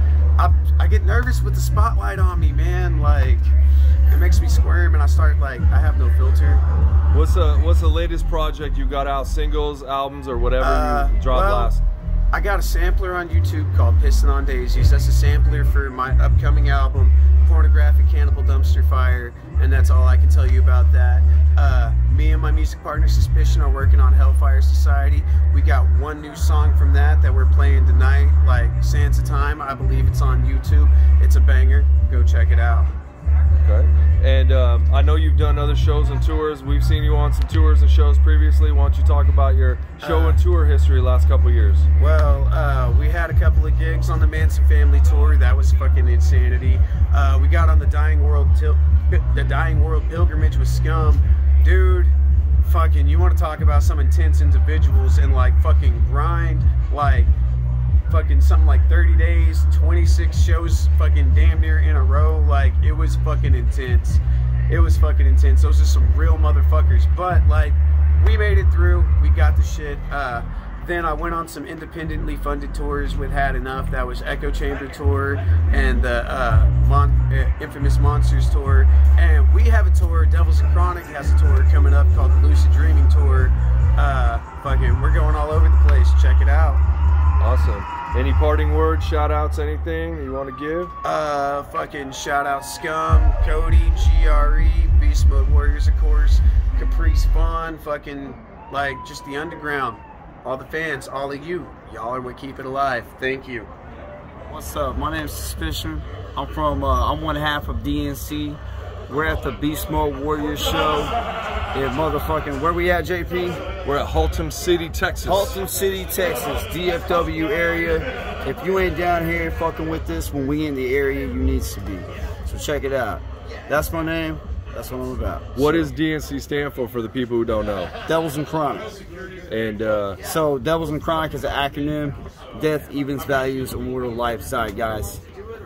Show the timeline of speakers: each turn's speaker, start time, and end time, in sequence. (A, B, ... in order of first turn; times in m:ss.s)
0:00.4-0:03.5 A
0:04.1-0:06.6 A
0:07.1-0:11.8 B
0:10.6-0:11.7 A
0:12.3-0:32.9 A
0:33.6-0:41.9 B
0:40.0-0:40.4 A
0:42.0-0:57.3 A
0:58.1-1:26.8 A
1:27.4-1:30.9 B
1:31.0-1:43.7 A
1:44.5-1:51.1 C
1:51.7-1:53.7 C
1:53.8-1:55.6 B
1:55.2-2:05.9 C
2:05.5-2:07.9 B
2:08.1-2:08.9 C
2:09.5-2:10.2 B
2:10.2-2:15.2 C